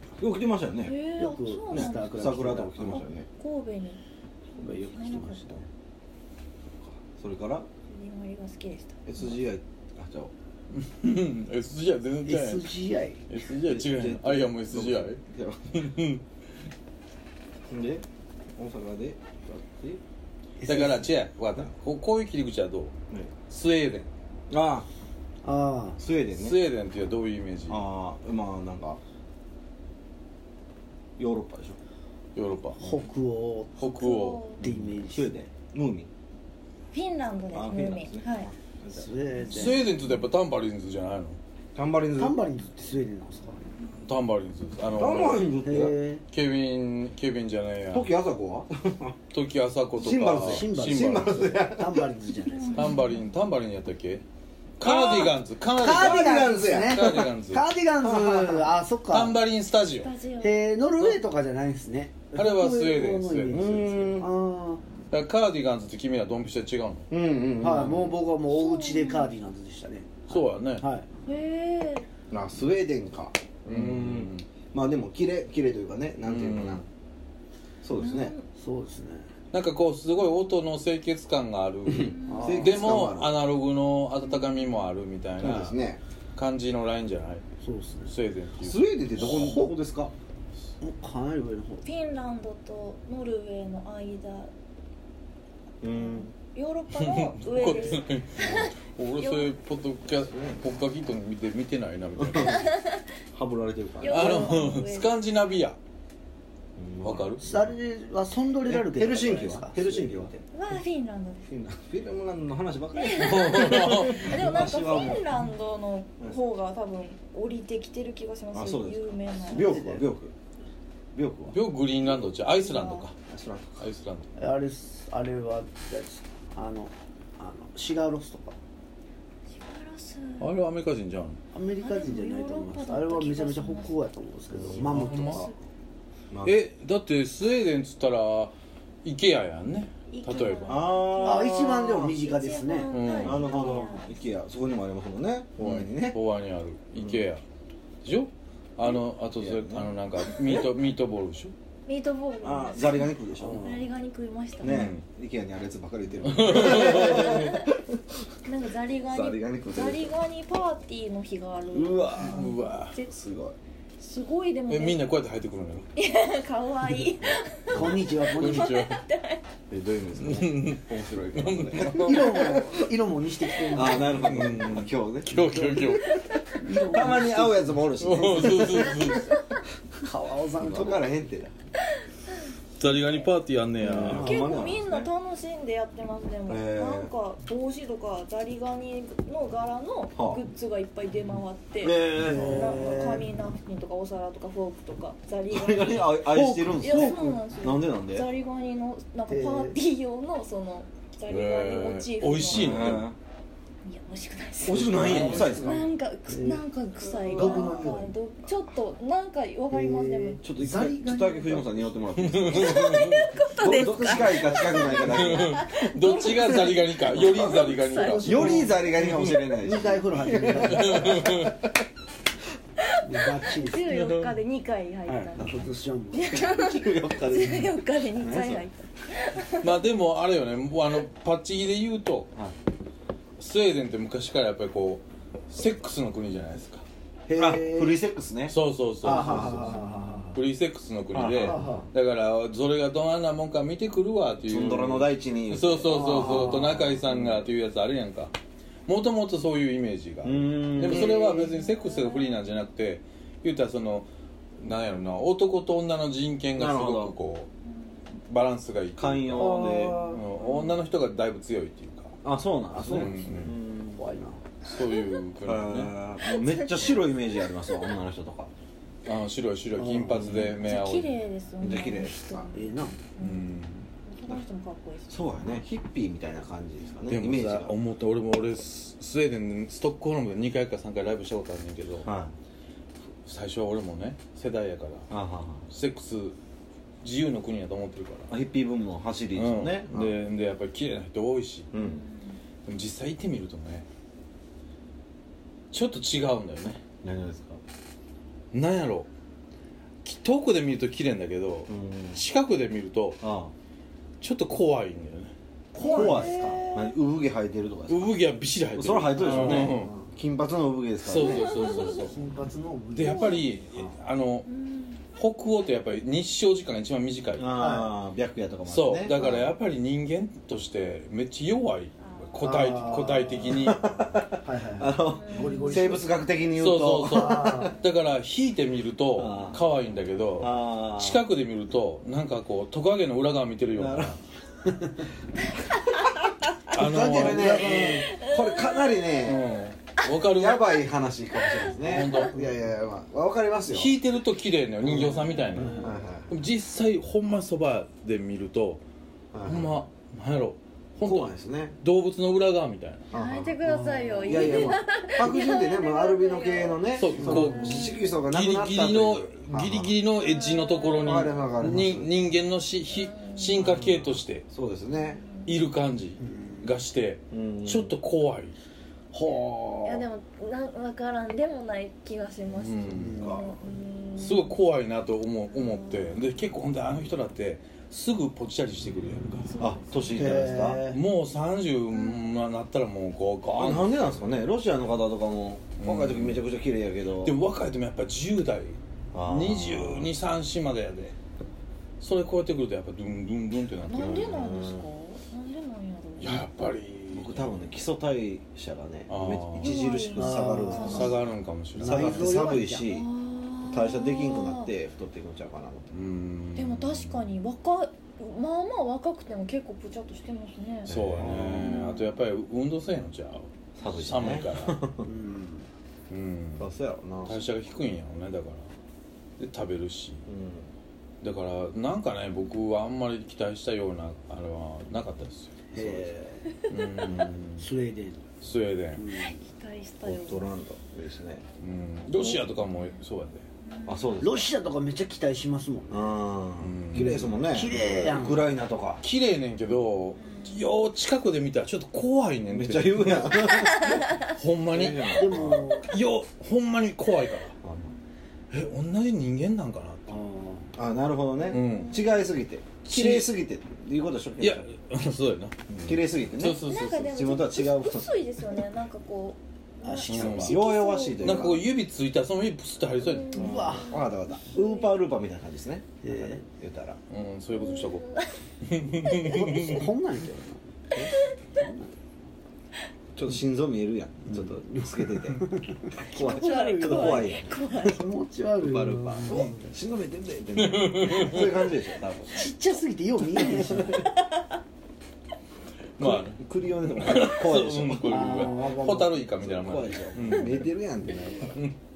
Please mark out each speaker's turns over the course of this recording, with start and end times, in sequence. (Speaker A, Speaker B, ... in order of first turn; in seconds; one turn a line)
Speaker A: 0.2-1.0
Speaker B: 0.8-2.1
Speaker C: 1.1-3.0
Speaker A: 1.7-3.2
Speaker B: 2.9-4.0
Speaker B: 4.5-5.6
Speaker C: 4.6-5.6
Speaker A: 6.9-7.7
Speaker B: 7.9-9.3
Speaker A: 9.1-10.3
Speaker D: 10.7-12.7
Speaker C: 12.2-13.3
Speaker D: 13.3-15.2
Speaker A: 13.6-15.9
Speaker D: 15.7-16.2
Speaker A: 17.7-18.0
Speaker A: 18.6-20.0
Speaker C: 20.6-21.1
Speaker D: 20.6-22.9
Speaker D: 23.5-24.1
Speaker A: 24.5-24.9
Speaker C: 25.4-26.0
Speaker A: 26.0-26.6
Speaker D: 26.3-27.8
Speaker A: 27.7-29.0
Speaker A: 31.2-31.8
Speaker D: 32.4-33.0
Speaker C: 32.8-34.1
Speaker D: 33.8-34.9
Speaker B: 33.8-34.6
Speaker C: 34.6-35.3
Speaker A: 35.1-36.1
Speaker B: 36.9-38.5
Speaker A: 37.5-39.1
Speaker C: 38.9-39.9
Speaker D: 39.5-41.4
Speaker A: 41.7-42.4
Speaker C: 42.2-43.7
Speaker D: 44.0-48.1
Speaker A: 44.9-46.0
Speaker C: 45.6-46.2
Speaker A: 47.9-49.1
Speaker D: 49.3-51.5
Speaker A: 50.0-52.1
Speaker C: 50.3-52.9
Speaker B: 52.5-53.3
Speaker D: 52.7-54.2
Speaker D: 54.8-57.7
Speaker A: 54.8-57.3
Speaker C: 55.8-59.4
Speaker A: 58.0-58.8
Speaker D: 59.1-60.1
Speaker B: 60.0-60.7
Speaker C: 60.4-64.8
Speaker D: 62.3-63.6
Speaker A: 63.5-64.3
Speaker D: 65.1-67.1
Speaker A: 67.1-68.2
Speaker C: 67.6-71.1
Speaker B: 68.5-69.3
Speaker D: 70.3-70.9
Speaker B: 71.2-72.1
Speaker A: 72.3-76.8
Speaker D: 73.7-74.4
Speaker D: 76.2-76.8
Speaker A: 77.8-78.3
Speaker B: 78.0-78.4
Speaker C: 78.5-79.3
Speaker D: 79.5-85.7
Speaker A: 81.9-83.4
Speaker C: 82.2-83.0
Speaker A: 85.4-86.0
Speaker D: 86.3-87.4
Speaker C: 87.6-88.1
Speaker D: 88.0-89.3
Speaker A: 88.6-90.1
Speaker C: 89.2-89.7
Speaker C: 90.8-91.8
Speaker B: 91.8-94.5
Speaker A: 95.8-96.3
Speaker B: 95.9-99.5
Speaker D: 97.0-102.7
Speaker A: 100.2-100.6
Speaker A: 102.2-102.5
Speaker B: 102.3-103.0
Speaker A: 103.3-104.4
Speaker B: 104.0-105.2
Speaker D: 104.1-105.8
Speaker A: 106.8-107.7
Speaker D: 107.0-107.4
Speaker C: 107.4-110.3
Speaker A: 108.6-110.4
Speaker B: 110.5-111.5
Speaker A: 111.5-115.3
Speaker B: 113.0-119.9
Speaker D: 113.2-114.5
Speaker A: 118.5-120.3
Speaker C: 119.4-120.1
Speaker A: 121.1-121.5
Speaker D: 121.5-123.1
Speaker B: 122.5-123.0
Speaker A: 123.3-123.7
Speaker D: 123.8-124.3
Speaker C: 124.4-128.6
Speaker B: 129.5-130.5
Speaker D: 130.4-131.4
Speaker C: 131.5-135.5
Speaker B: 131.8-134.0
Speaker A: 134.5-135.3
Speaker D: 134.6-135.5
Speaker B: 135.3-135.6
Speaker A: 136.3-136.6
Speaker D: 136.4-140.9
Speaker B: 140.1-144.2
Speaker A: 140.7-142.3
Speaker C: 141.2-143.8
Speaker D: 142.9-143.5
Speaker A: 143.2-146.2
Speaker D: 145.6-147.4
Speaker A: 146.9-147.2
Speaker D: 148.0-151.5
Speaker A: 149.3-150.6
Speaker B: 151.8-154.9
Speaker A: 152.4-153.7
Speaker C: 153.4-153.9
Speaker A: 154.6-157.7
Speaker D: 154.6-155.0
Speaker D: 156.2-157.5
Speaker B: 156.7-157.7
Speaker B: 158.4-163.1
Speaker A: 159.1-160.2
Speaker A: 161.7-162.4
Speaker D: 162.2-163.0
Speaker A: 163.1-163.6
Speaker B: 164.0-165.1
Speaker D: 164.7-165.9
Speaker B: 165.9-169.4
Speaker C: 167.7-168.8
Speaker A: 167.7-168.1
Speaker D: 167.8-169.0
Speaker A: 169.7-172.4
Speaker D: 170.2-170.8
Speaker D: 171.3-172.4
Speaker C: 171.9-174.7
Speaker A: 173.7-175.6
Speaker B: 173.7-174.1
Speaker D: 174.1-176.2
Speaker C: 175.2-178.7
Speaker B: 176.0-176.6
Speaker A: 176.8-179.1
Speaker D: 178.0-179.3
Speaker B: 178.6-179.5
Speaker C: 180.0-181.0
Speaker A: 180.6-181.5
Speaker B: 181.8-182.4
Speaker D: 182.8-184.4
Speaker A: 183.8-185.1
Speaker B: 184.0-203.0
Speaker C: 184.0-184.5
Speaker A: 186.5-187.1
Speaker A: 190.1-190.4
Speaker A: 191.8-192.6
Speaker C: 192.1-193.3
Speaker A: 195.5-198.3
Speaker C: 196.3-197.4
Speaker C: 199.3-199.8
Speaker D: 201.3-203.1
Speaker A: 202.5-203.2
Speaker B: 203.8-210.4
Speaker A: 204.6-205.9
Speaker D: 204.8-205.7
Speaker C: 205.1-208.1
Speaker A: 207.3-208.0
Speaker C: 209.7-211.9
Speaker A: 210.4-212.9
Speaker D: 212.2-213.6
Speaker B: 212.5-218.8
Speaker A: 213.6-215.7
Speaker C: 214.1-215.3
Speaker D: 215.0-219.5
Speaker A: 216.3-216.6
Speaker A: 217.2-217.4
Speaker C: 217.5-218.9
Speaker A: 218.2-221.5
Speaker C: 219.6-221.3
Speaker D: 220.6-221.6
Speaker C: 223.0-223.9
Speaker B: 223.5-229.8
Speaker D: 223.8-224.3
Speaker C: 225.1-226.4
Speaker A: 226.5-228.6
Speaker D: 229.6-232.3
Speaker D: 233.4-236.8
Speaker C: 237.3-238.0
Speaker A: 237.3-238.6
Speaker D: 238.5-248.3
Speaker C: 239.0-240.4
Speaker A: 239.1-239.6
Speaker A: 241.1-241.7
Speaker C: 241.4-241.9
Speaker A: 244.5-247.5
Speaker C: 245.8-246.8
Speaker D: 248.8-254.1
Speaker A: 250.2-251.5
Speaker B: 250.9-252.5
Speaker D: 254.6-257.5
Speaker A: 256.6-257.1
Speaker D: 258.3-262.2
Speaker A: 259.0-260.0
Speaker C: 259.3-260.2
Speaker B: 259.8-260.8
Speaker A: 262.2-264.0
Speaker C: 262.7-264.4
Speaker D: 262.8-263.5
Speaker D: 264.6-265.9
Speaker A: 265.4-268.5
Speaker B: 266.2-267.9
Speaker D: 269.0-271.2
Speaker C: 269.8-270.5
Speaker A: 270.0-270.5
Speaker B: 270.5-273.5
Speaker A: 271.6-272.5
Speaker C: 272.5-272.9
Speaker D: 273.2-273.9
Speaker B: 274.0-275.4
Speaker A: 275.1-277.8
Speaker D: 277.1-282.1
Speaker A: 282.0-282.3
Speaker D: 283.2-285.1
Speaker A: 285.1-285.6
Speaker D: 285.7-286.4
Speaker D: 287.0-288.3
Speaker A: 288.3-290.2
Speaker D: 289.3-291.7
Speaker A: 291.7-292.0
Speaker B: 291.8-292.4
Speaker D: 292.6-293.9
Speaker D: 295.7-296.8
Speaker A: 297.0-297.6
Speaker D: 298.5-299.1
Speaker D: 300.0-303.2
Speaker A: 301.7-302.2
Speaker A: 303.2-303.5
Speaker D: 304.2-305.3
Speaker C: 305.7-306.7
Speaker B: 305.8-306.9
Speaker A: 305.8-308.2
Speaker D: 307.9-309.9
Speaker A: 308.7-311.5
Speaker C: 309.1-310.1
Speaker D: 311.0-312.1
Speaker B: 311.2-312.1
Speaker C: 311.5-313.9
Speaker D: 312.9-314.5
Speaker B: 313.0-313.5
Speaker B: 314.5-315.0
Speaker D: 315.1-317.5
Speaker A: 317.4-319.5
Speaker C: 317.5-317.9
Speaker D: 318.6-323.8
Speaker C: 322.4-323.6
Speaker A: 323.6-327.7
Speaker C: 324.2-326.2
Speaker B: 325.2-325.9
Speaker D: 326.5-334.2
Speaker C: 327.1-327.7
Speaker A: 329.1-329.6
Speaker A: 330.4-331.2
Speaker A: 333.7-334.1
Speaker C: 334.7-335.0
Speaker B: 335.5-336.2
Speaker D: 336.7-337.9
Speaker C: 336.7-338.1
Speaker A: 336.8-339.4
Speaker B: 337.9-339.2
Speaker D: 339.2-340.7
Speaker A: 340.3-343.9
Speaker B: 341.4-342.2
Speaker D: 341.8-342.3
Speaker C: 342.3-342.7
Speaker D: 343.7-348.8
Speaker C: 345.1-345.9
Speaker A: 345.7-346.4
Speaker A: 349.3-349.8
Speaker D: 349.4-353.1
Speaker A: 351.0-351.8
Speaker A: 353.1-353.6
Speaker B: 353.1-358.2
Speaker C: 353.6-354.7
Speaker A: 354.2-360.0
Speaker D: 356.9-364.5
Speaker C: 357.1-357.7
Speaker B: 360.2-361.2
Speaker A: 361.0-362.1
Speaker B: 362.9-363.6
Speaker A: 363.6-365.2
Speaker B: 364.9-365.5
Speaker D: 365.4-368.6
Speaker C: 366.2-366.8
Speaker A: 367.3-367.9
Speaker C: 369.1-370.1
Speaker B: 369.8-374.6
Speaker D: 372.5-373.3
Speaker C: 372.9-373.4
Speaker A: 373.1-373.4
Speaker D: 374.2-379.6
Speaker B: 375.5-376.2
Speaker B: 379.5-380.7
Speaker A: 379.6-381.0
Speaker C: 380.1-381.0
Speaker D: 380.8-383.9
Speaker A: 383.5-387.4
Speaker D: 385.8-386.4
Speaker D: 387.2-391.1
Speaker A: 389.1-390.1
Speaker D: 392.0-394.4
Speaker B: 393.8-396.5
Speaker A: 393.9-394.9
Speaker D: 396.2-397.8
Speaker A: 397.1-401.2
Speaker D: 399.1-399.8
Speaker B: 399.5-401.2
Speaker C: 400.1-401.0
Speaker D: 400.8-402.4
Speaker C: 401.8-402.9
Speaker A: 401.8-403.1
Speaker B: 402.7-404.7
Speaker A: 403.6-405.9
Speaker D: 405.9-407.3
Speaker B: 406.5-412.1
Speaker D: 410.8-414.9
Speaker A: 410.9-411.7
Speaker A: 413.8-415.1
Speaker C: 415.0-415.7
Speaker D: 416.1-416.7
Speaker A: 416.6-417.4
Speaker D: 417.2-418.7
Speaker D: 419.4-420.2
Speaker A: 420.3-420.7
Speaker D: 421.2-425.6
Speaker C: 425.7-426.6
Speaker A: 425.7-426.2
Speaker B: 426.5-427.2
Speaker D: 426.7-427.6
Speaker C: 427.2-428.2
Speaker D: 428.4-429.1
Speaker C: 428.9-429.4
Speaker B: 429.1-430.5
Speaker A: 430.0-431.4
Speaker D: 431.6-433.4
Speaker B: 433.6-434.3
Speaker A: 433.9-434.5
Speaker C: 434.2-436.2
Speaker A: 435.9-439.0
Speaker D: 436.6-438.3
Speaker C: 437.5-438.5
Speaker D: 439.0-447.6
Speaker B: 440.2-440.7
Speaker A: 442.5-443.9
Speaker A: 444.7-445.6
Speaker C: 445.1-445.9
Speaker A: 447.6-447.9
Speaker D: 448.5-450.1
Speaker C: 450.1-450.7
Speaker A: 450.8-454.7
Speaker D: 451.5-452.0
Speaker B: 451.5-452.3
Speaker D: 452.9-453.3
Speaker D: 454.4-457.1
Speaker A: 455.8-458.6
Speaker B: 456.6-461.4
Speaker C: 459.8-460.7
Speaker D: 460.1-460.6
Speaker A: 460.2-461.6
Speaker D: 461.1-463.7
Speaker B: 463.0-464.9
Speaker C: 463.3-464.0
Speaker A: 463.4-467.0
Speaker C: 466.0-466.4
Speaker D: 467.1-469.8
Speaker B: 467.5-468.3
Speaker B: 468.9-469.9
Speaker C: 469.2-470.6
Speaker C: 471.5-471.9
Speaker A: 473.1-475.4
Speaker C: 474.3-479.7
Speaker B: 476.0-478.1
Speaker A: 476.0-477.6
Speaker A: 478.6-482.4
Speaker D: 480.6-481.5
Speaker C: 482.3-484.1
Speaker B: 483.4-484.6
Speaker D: 486.0-486.4
Speaker A: 486.0-491.6
Speaker D: 486.9-490.7
Speaker C: 488.0-488.9